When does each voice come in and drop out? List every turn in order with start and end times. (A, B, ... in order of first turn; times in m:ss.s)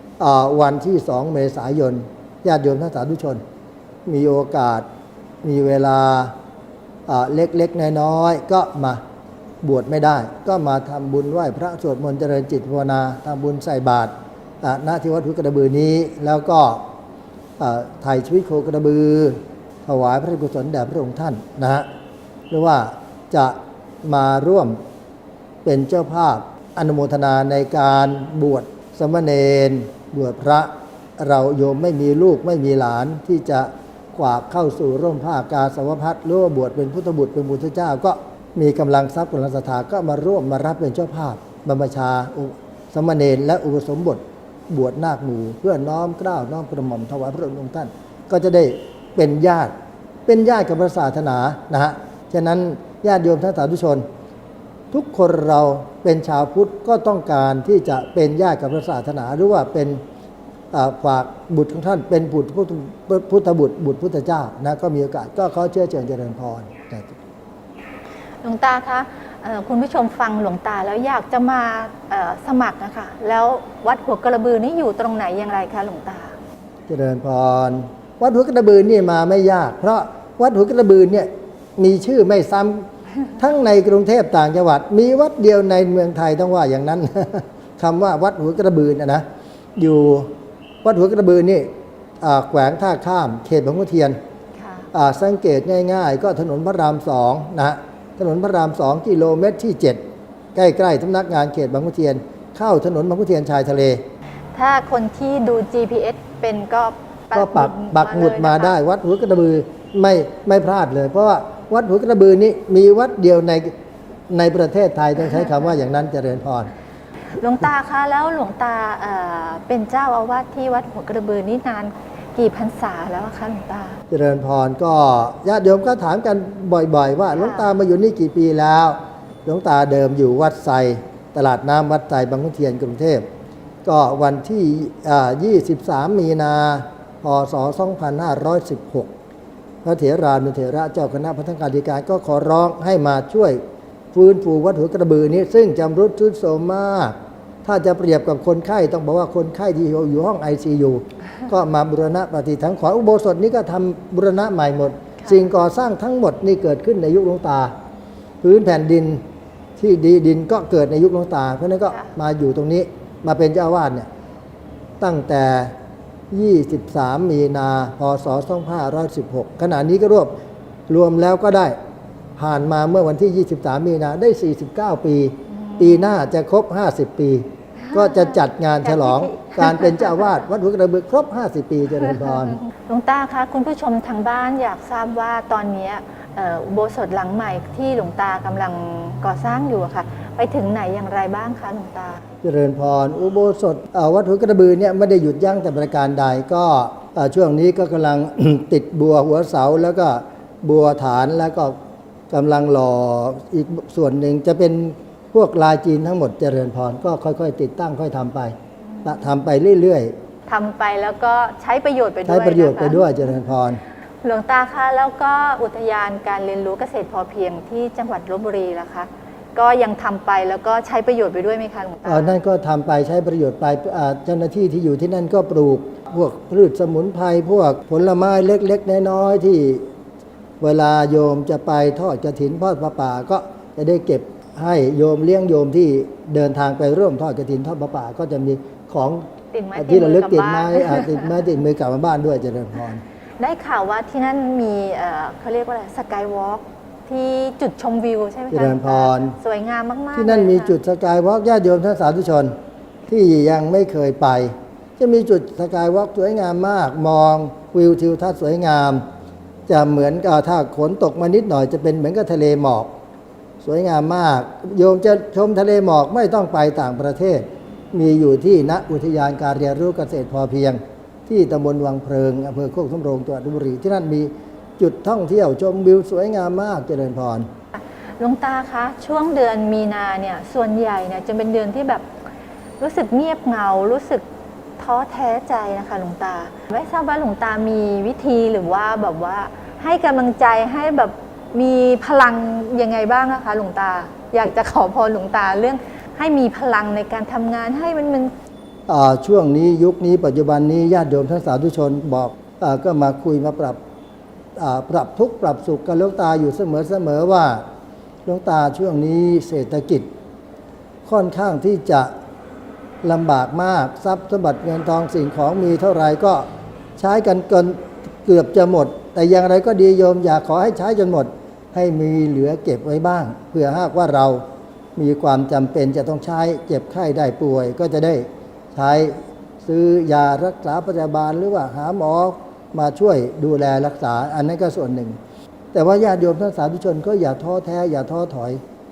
0:00.2-0:03.4 A
0:04.0-0:04.8 A
0:05.4-0:06.3 A
0:07.1-0:09.0 A
0:09.6-0:16.8 A
0:17.6-0:21.8 A
0:22.5-0:24.8 A
0:25.6-0:49.7 A
0:50.2-0:54.0 A
0:54.9-1:00.0 A
1:00.7-1:07.2 A
1:08.4-1:16.4 B
1:16.9-1:22.8 A
1:23.4-1:29.2 A
1:29.8-1:30.3 A
1:30.8-1:31.7 A
1:32.2-1:34.2 A
1:34.5-1:34.9 B
1:34.9-1:40.0 A
1:40.5-1:44.0 A
1:44.5-1:48.8 B
1:47.3-1:53.7 A
1:54.3-1:56.7 A
1:57.4-2:04.0 B
2:04.1-2:13.2 A
2:07.3-2:07.7 B
2:13.8-2:19.1 A
2:19.8-2:23.6 A
2:24.1-2:37.7 A
2:38.4-2:39.2 A
2:39.8-2:44.1 A
2:45.0-2:45.7 A
2:46.3-2:50.3 A
2:50.9-2:51.8 A
2:52.4-3:02.6 A
2:55.5-2:56.1 B
2:58.8-3:00.2 B
3:02.7-3:12.2 B
3:12.4-3:21.7 A
3:22.3-3:30.1 A
3:30.5-3:33.3 B
3:32.2-3:33.8 A
3:34.2-3:42.3 B
3:42.0-3:49.8 A
3:50.6-3:59.2 A
3:59.5-4:01.3 B
3:59.7-4:03.0 A
4:03.4-4:10.7 B
4:08.5-4:09.4 A
4:10.1-4:12.5 A
4:13.1-4:19.0 A
4:19.7-4:22.9 A
4:23.6-4:37.5 A
4:37.7-4:42.1 B
4:42.8-4:44.2 B
4:44.8-4:58.3 B
4:58.9-5:03.8 A
5:04.6-5:07.6 A
5:08.2-5:10.1 A
5:11.0-5:12.1 A
5:13.0-5:16.4 A
5:17.0-5:24.4 A
5:25.0-5:35.2 A
5:35.7-5:38.6 A